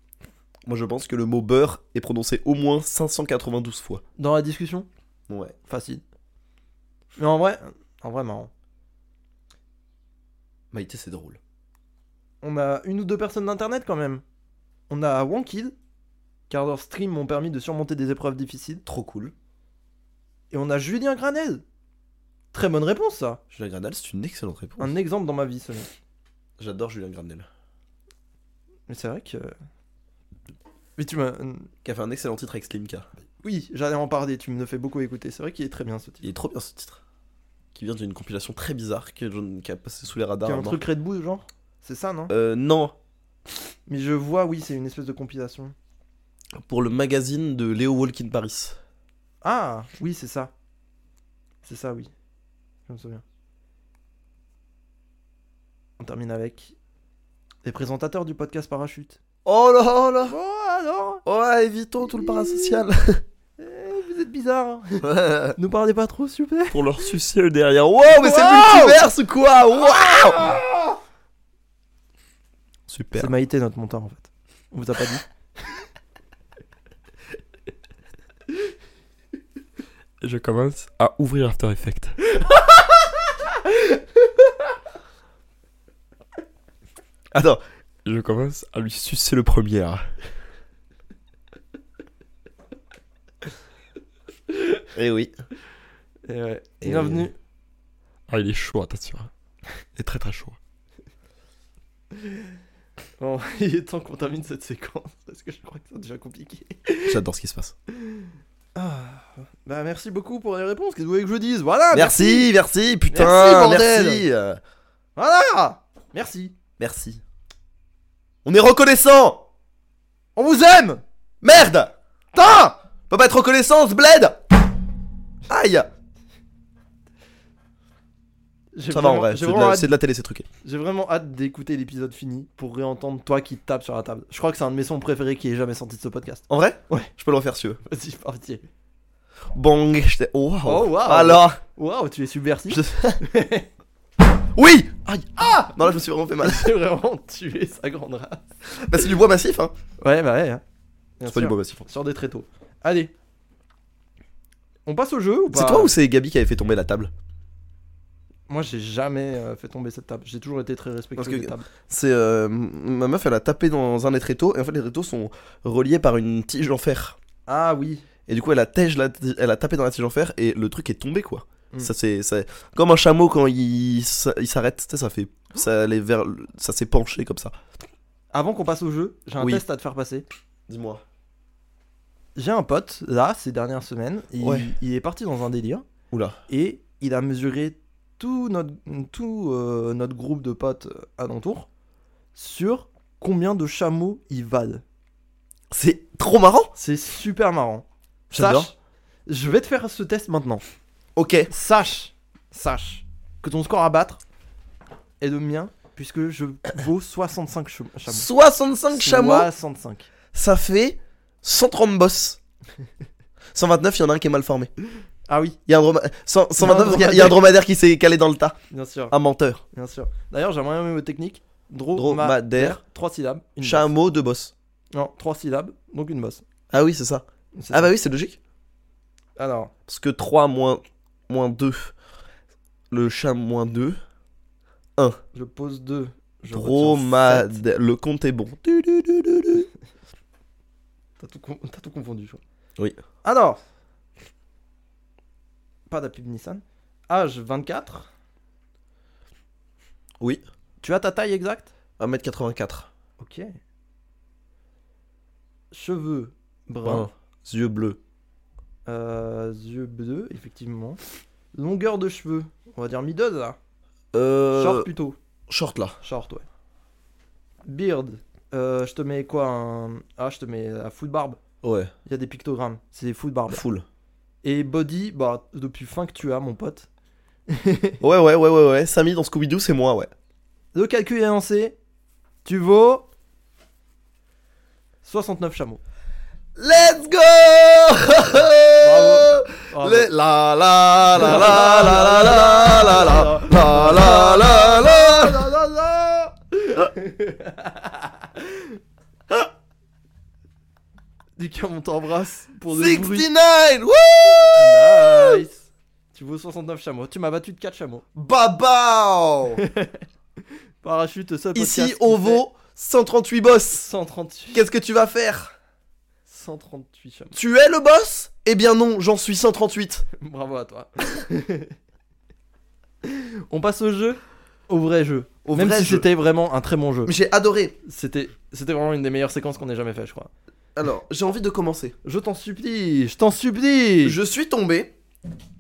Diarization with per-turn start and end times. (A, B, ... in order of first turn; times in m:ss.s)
0:00.6-0:04.0 A
0:04.2-0:04.9 B
0:05.3-0:05.6 A
0:05.7-0:06.0 B
0:07.2-0:08.5 B
0:10.7-0:11.4 A
0:12.4-0:14.2 B
0:14.9-0:15.7 B
0:16.5-0:18.8 B
0:18.9-0:19.3 A
0:20.5-0:21.6 B
0:22.5-0:23.4 B
0:23.5-0:24.9 A
0:24.8-0:25.9 B
0:26.6-0:27.5 A
0:28.9-0:29.5 B
0:31.0-0:31.7 B
0:31.8-0:33.1 A
0:33.4-0:36.3 B
0:36.2-0:37.0 A
0:37.7-0:40.8 A
0:40.4-0:42.3 B
0:42.3-0:42.9 A
0:43.9-0:45.7 B
0:46.6-0:48.8 A
0:49.4-0:50.5 B
0:51.6-0:52.1 B
0:52.9-0:53.2 B
0:56.0-0:56.7 B
0:57.6-0:59.2 B
0:59.4-1:00.4 A
1:00.3-1:01.2 B
1:01.2-1:03.2 A
1:02.0-1:02.8 B
1:03.6-1:05.0 B
1:05.0-1:05.6 A
1:05.6-1:06.8 B
1:06.7-1:10.6 A
1:08.0-1:09.0 B
1:09.8-1:11.0 B
1:12.9-1:13.3 A
1:13.2-1:15.2 B
1:20.2-1:21.9 C
1:20.2-1:22.0 A
1:22.4-1:22.9 B
1:23.4-1:24.5 B
1:27.3-1:30.1 A
1:34.9-1:35.3 A
1:36.2-1:37.3 B
1:36.8-1:37.3 A
1:38.3-1:39.3 C
1:38.4-1:39.1 A
1:40.0-1:40.6 A
1:43.2-1:47.2 B
1:47.0-1:47.7 A
1:48.0-1:52.5 B
1:51.9-1:54.6 A
1:53.1-1:54.2 B
1:55.2-1:56.6 B
1:56.8-1:57.2 A
1:58.4-1:59.4 A
2:00.4-2:01.0 B
2:01.4-2:01.9 A
2:02.3-2:02.8 B
2:03.1-2:04.4 A
2:05.5-2:05.9 A
2:08.7-2:09.9 B
2:08.9-2:10.4 A
2:10.6-2:17.1 B
2:16.5-2:17.8 A
2:17.8-2:18.6 B
2:19.5-2:21.6 A
2:20.6-2:23.7 B
2:22.7-2:23.2 A
2:24.5-2:26.7 A
2:25.4-2:25.7 B
2:26.4-2:29.1 B
2:28.9-2:29.7 A
2:30.0-2:30.6 B
2:31.2-2:33.1 B
2:31.3-2:31.9 A
2:34.9-2:35.9 B
2:35.5-2:37.1 A
2:38.5-2:41.7 B
2:41.2-2:47.2 A
2:47.5-2:48.0 B
2:48.3-2:57.6 A
2:58.3-3:00.2 B
3:00.7-3:01.0 A
3:02.3-3:05.8 B
3:04.4-3:04.7 A
3:06.1-3:06.4 A
3:06.5-3:11.7 B
3:12.3-3:14.8 B
3:15.7-3:16.7 A
3:16.8-3:18.7 B
3:18.3-3:18.7 A
3:19.3-3:20.6 B
3:21.2-3:21.5 A
3:21.5-3:24.2 B
3:25.2-3:28.3 B
3:28.1-3:29.5 A
3:28.9-3:30.1 B
3:30.3-3:32.4 A
3:33.5-3:34.7 A
3:35.3-3:35.6 B
3:35.7-3:38.6 A
3:36.6-3:37.4 B
3:38.7-3:39.1 B
3:39.1-3:39.6 A
3:39.7-3:43.9 B
3:41.9-3:42.8 A
3:43.6-3:44.5 A
3:44.9-3:46.4 B
3:46.7-3:48.4 A
3:47.6-3:47.9 B
3:49.4-3:49.7 B
3:49.9-3:51.9 A
3:52.9-3:54.0 A
3:55.3-3:57.6 B
3:56.5-3:59.7 A
4:01.2-4:02.4 B
4:03.2-4:03.6 B
4:05.9-4:08.1 B
4:10.8-4:11.7 B
4:12.0-4:12.9 A
4:13.2-4:13.6 B
4:15.7-4:17.1 B
4:16.8-4:18.0 A
4:18.9-4:21.0 B
4:21.5-4:23.6 B
4:24.1-4:24.9 A
4:24.5-4:25.2 B
4:25.5-4:26.0 A
4:26.0-4:26.4 B
4:27.6-4:31.4 B
4:31.6-4:31.9 A
4:32.0-4:33.6 B
4:33.5-4:33.8 A
4:34.4-4:36.9 B
4:37.5-4:38.0 B
4:38.0-4:40.1 A
4:40.7-4:41.8 B
4:42.4-4:43.1 B
4:45.0-4:45.8 B
4:46.6-4:55.5 A
4:48.8-4:50.1 B
4:51.1-4:58.8 B
5:01.4-5:03.3 B
5:02.7-5:05.4 A
5:04.5-5:08.0 B
5:08.1-5:09.6 A
5:09.6-5:10.0 B
5:10.8-5:12.4 B
5:11.6-5:13.9 A
5:13.7-5:14.6 B
5:14.5-5:15.5 A
5:16.3-5:17.3 B
5:17.3-5:20.0 A
5:20.1-5:21.8 B
5:23.0-5:27.1 B
5:25.4-5:26.0 A
5:27.0-5:27.8 A
5:27.8-5:30.3 B
5:30.8-5:32.0 A
5:32.0-5:34.2 B
5:34.0-5:34.9 A